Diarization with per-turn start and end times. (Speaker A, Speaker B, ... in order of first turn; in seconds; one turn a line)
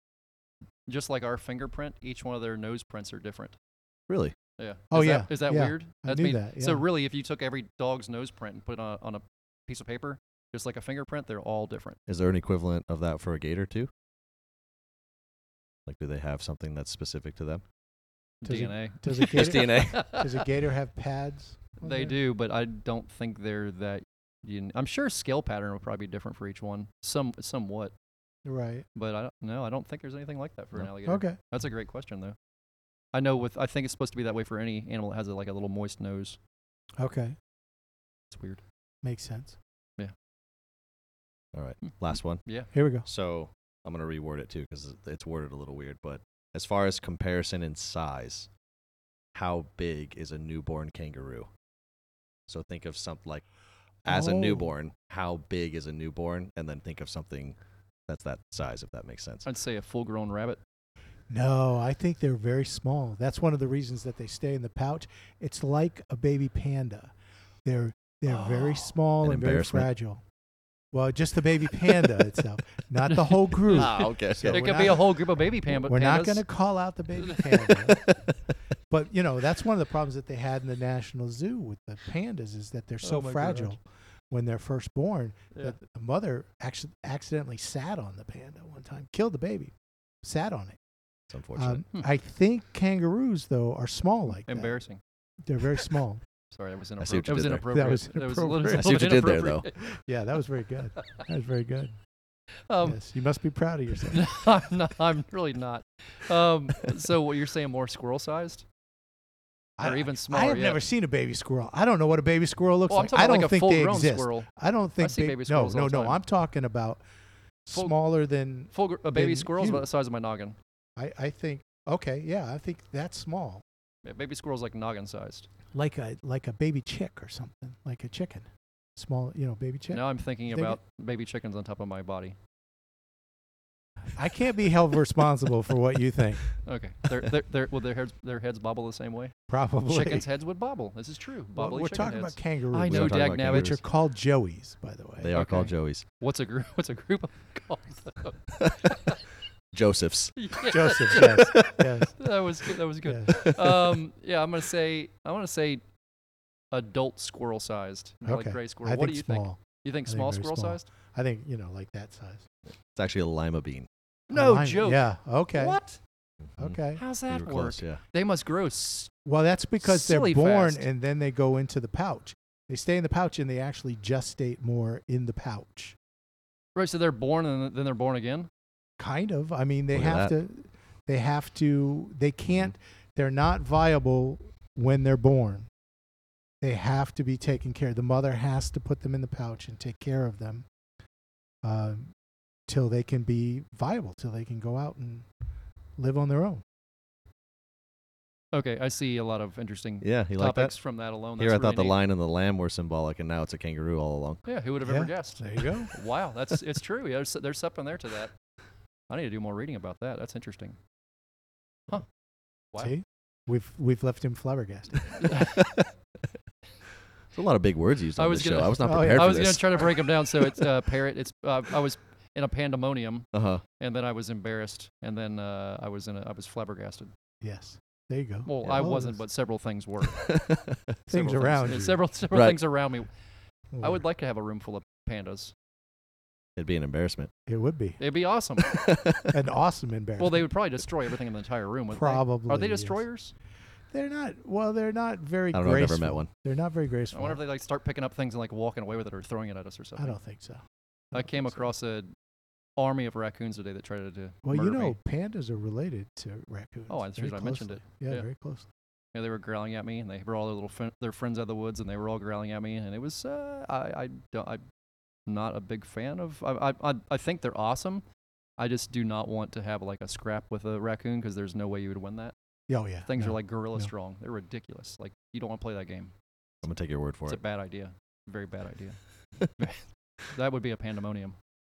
Speaker A: 0.9-3.6
Speaker B: 4.1-4.3
Speaker A: 4.6-12.0
Speaker C: 4.9-6.8
Speaker B: 12.1-13.9
Speaker B: 15.9-17.6
Speaker A: 18.4-20.3
Speaker C: 18.4-22.2
Speaker B: 19.2-20.2
Speaker A: 21.8-27.9
Speaker C: 28.4-28.9
Speaker A: 28.9-32.4
Speaker C: 31.0-31.4
Speaker A: 33.1-36.4
Speaker C: 37.0-37.4
Speaker A: 38.3-38.6
Speaker C: 39.0-39.6
Speaker B: 41.5-42.4
Speaker A: 42.5-42.7
Speaker C: 42.7-43.1
Speaker B: 43.0-48.5
Speaker B: 49.3-51.5
Speaker B: 52.5-53.5
Speaker B: 54.0-57.6
Speaker C: 54.1-54.7
Speaker B: 58.1-59.5
Speaker A: 59.4-60.6
Speaker C: 61.3-67.1
Speaker C: 67.6-70.2
Speaker A: 68.3-69.0
Speaker B: 69.2-69.9
Speaker C: 70.9-75.0
Speaker A: 73.1-76.5
Speaker B: 73.7-75.0
Speaker C: 75.7-78.0
Speaker A: 77.2-77.8
Speaker B: 77.7-78.5
Speaker C: 78.9-90.8
Speaker A: 83.0-83.8
Speaker B: 91.3-91.8
Speaker C: 91.5-94.8
Speaker A: 94.5-95.0
Speaker C: 95.4-96.2
Speaker A: 96.5-99.9
Speaker B: 97.0-97.7
Speaker C: 97.7-99.3
Speaker B: 98.7-99.7
Speaker C: 99.8-102.0
Speaker A: 102.7-103.0
Speaker C: 102.8-104.3
Speaker A: 104.1-108.7
Speaker C: 109.8-117.0
Speaker A: 109.8-110.8
Speaker A: 112.9-116.2
Speaker C: 117.7-119.9
Speaker A: 118.7-120.6
Speaker C: 121.0-123.6
Speaker A: 124.0-125.5
Speaker C: 125.7-130.8
Speaker A: 129.9-132.4
Speaker C: 134.1-136.6
Speaker A: 136.6-139.3
Speaker C: 139.5-140.3
Speaker A: 139.9-143.8
Speaker C: 141.6-145.3
Speaker B: 142.8-143.8
Speaker B: 145.2-146.1
Speaker A: 145.3-149.2
Speaker B: 149.7-150.5
Speaker A: 150.4-155.8
Speaker C: 150.7-152.2
Speaker B: 151.1-151.9
Speaker C: 153.1-153.5
Speaker B: 153.3-153.7
Speaker A: 156.7-160.9
Speaker C: 158.2-162.5
Speaker B: 162.9-163.9
Speaker C: 164.3-165.8
Speaker A: 164.3-166.0
Speaker B: 166.4-168.0
Speaker C: 166.6-167.0
Speaker A: 167.0-169.1
Speaker C: 169.2-176.0
Speaker A: 169.8-170.9
Speaker A: 176.8-178.5
Speaker C: 179.0-185.7
Speaker B: 179.9-180.3
Speaker C: 186.6-190.7
Speaker C: 191.6-192.1
Speaker C: 192.7-195.3
Speaker C: 196.0-196.6
Speaker A: 198.5-202.0
Speaker B: 200.0-200.8
Speaker B: 201.4-204.4
Speaker A: 204.4-208.3
Speaker C: 204.8-205.9
Speaker A: 209.1-210.8
Speaker C: 212.8-215.2
Speaker A: 215.2-215.5
Speaker B: 215.2-215.9
Speaker B: 217.3-220.7
Speaker A: 218.2-223.3
Speaker C: 218.8-219.4
Speaker B: 223.3-223.6
Speaker A: 223.8-227.1
Speaker C: 227.4-229.2
Speaker A: 228.4-230.2
Speaker B: 230.2-230.9
Speaker C: 231.1-232.0
Speaker A: 231.1-233.1
Speaker B: 232.3-232.6
Speaker C: 233.7-234.0
Speaker A: 233.8-235.5
Speaker B: 236.6-237.3
Speaker C: 237.5-238.0
Speaker A: 238.0-238.7
Speaker B: 238.6-239.3
Speaker C: 239.3-240.5
Speaker A: 240.2-243.3
Speaker C: 241.9-243.0
Speaker C: 243.9-247.4
Speaker B: 245.5-246.3
Speaker A: 247.1-250.2
Speaker C: 250.0-251.7
Speaker A: 251.1-252.1
Speaker A: 252.8-255.0
Speaker C: 254.4-258.7
Speaker A: 256.9-258.3
Speaker A: 259.1-264.6
Speaker A: 265.3-268.0
Speaker A: 268.6-272.3
Speaker C: 272.7-273.9
Speaker A: 273.1-276.1
Speaker B: 276.6-277.4
Speaker A: 277.3-279.0
Speaker A: 279.5-281.4